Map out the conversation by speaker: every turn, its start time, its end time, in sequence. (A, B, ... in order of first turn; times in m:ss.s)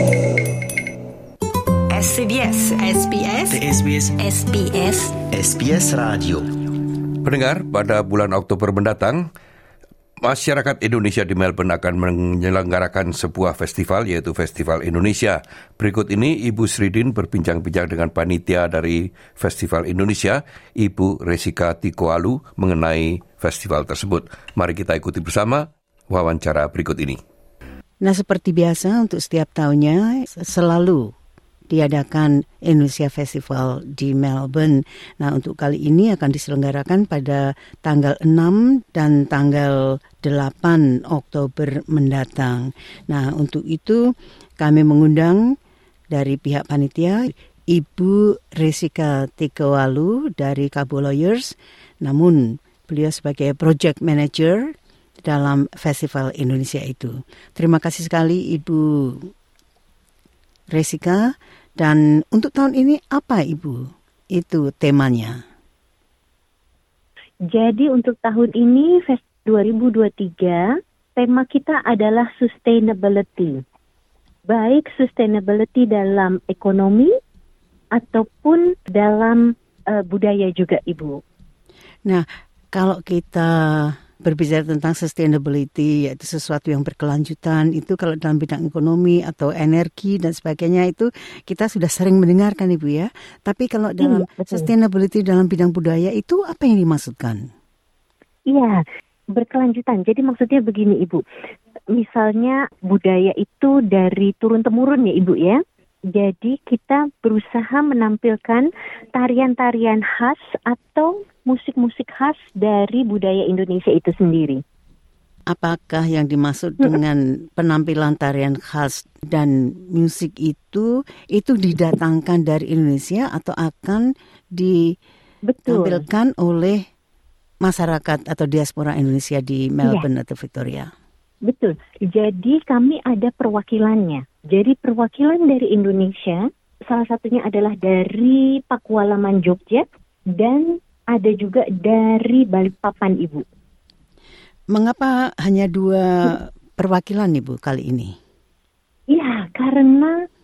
0:01.9-0:05.2 A
0:03.5-0:04.2 B
0:05.2-0:06.5 B
0:07.2-0:09.2 C
0:10.2-0:27.2 C
0:28.0-0:31.0 D
0:31.7-0:44.0 D
0:44.6-0:45.4 D
0:46.1-0:59.3 D
1:00.7-1:01.2 D
1:01.8-1:03.8 D
1:04.4-1:05.3 D
1:07.5-1:10.6 E
1:11.2-1:13.5 E
1:14.5-1:17.1 E
1:18.0-1:19.4 E
1:19.9-1:21.2 E
1:22.1-1:37.4 D
1:34.0-1:34.7 E
1:38.5-1:38.8 E
1:39.4-1:41.2 E
1:41.9-1:45.6 E
1:46.1-1:54.6 E
1:55.5-2:04.8 D
2:05.5-2:06.0 E
2:05.7-2:06.8 D
2:07.6-2:10.9 D
2:11.5-2:19.8 E
2:20.4-2:23.4 E
2:24.7-2:28.1 D
2:29.1-2:30.1 E